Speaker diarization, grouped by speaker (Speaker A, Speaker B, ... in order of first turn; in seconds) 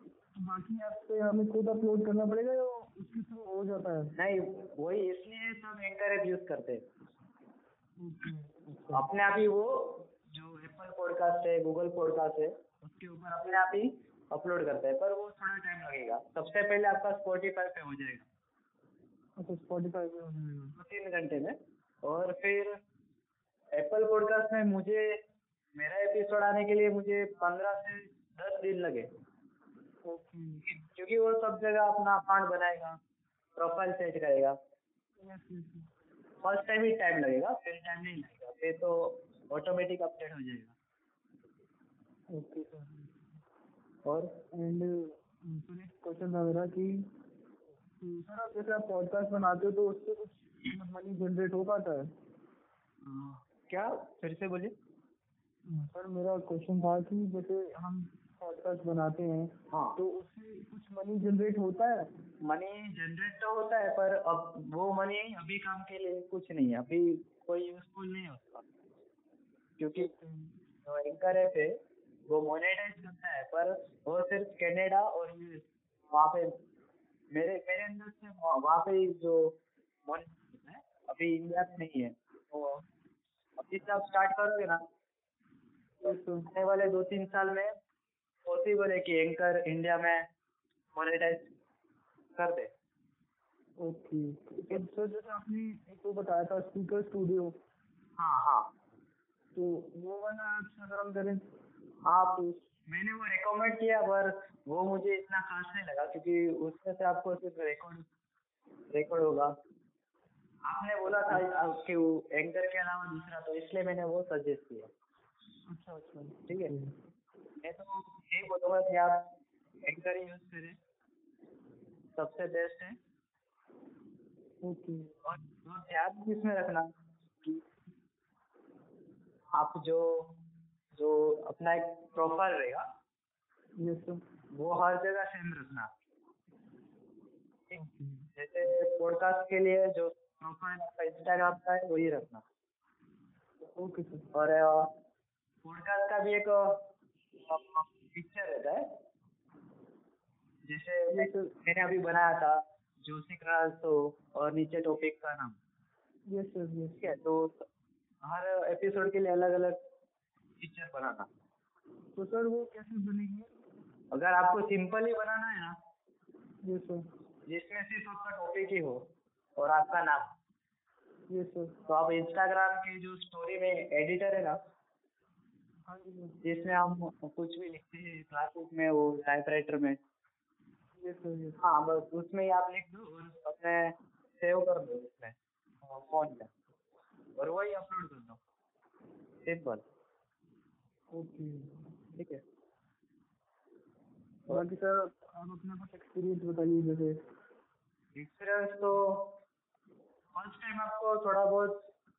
Speaker A: 0.4-4.1, 8.0-9.1, 19.4-20.8, 30.1-30.8, 35.2-35.9, 42.3-43.4, 44.5-47.1, 47.8-52.1, 55.7-62.1, 70.0-70.6, 86.0-86.5, 93.8-97.6, 99.5-101.5, 115.7-117.0, 124.6-125.2, 133.8-134.2, 137.8-138.3, 143.6-144.3, 151.1-151.5, 156.3-157.1, 162.2-163.6, 166.6-167.0, 171.3-171.8, 175.9-176.4, 181.0-181.6, 191.1-191.9, 194.5-197.2
Speaker B: 4.2-6.8, 8.9-18.3, 20.8-22.8, 23.8-25.2, 25.8-29.1, 30.7-33.0, 33.6-34.6, 36.4-40.8, 44.0-44.3, 53.0-54.7, 59.7-60.0, 62.4-68.7, 69.8-70.1, 70.9-71.8, 72.3-76.6, 77.3-82.8, 83.6-84.8, 86.0-87.7, 88.5-90.3, 91.0-91.5, 92.4-92.7, 98.2-98.7, 102.0-108.1, 108.9-109.5, 110.7-114.9, 116.5-116.7, 117.6-119.3, 119.8-120.8, 122.2-123.0, 125.2-126.9, 129.6-130.4, 131.0-132.9, 134.5-135.9, 138.4-142.4, 144.3-144.9, 145.6-146.9, 147.5-148.9, 150.7-155.6, 157.0-157.7, 158.2-159.8, 160.6-161.3, 164.1-165.8, 167.5-169.0, 169.6-170.3, 171.9-174.6, 176.4-180.0, 181.6-186.5, 187.4-188.4, 189.4-189.8, 192.2-192.4, 198.2-199.4, 200.3-201.9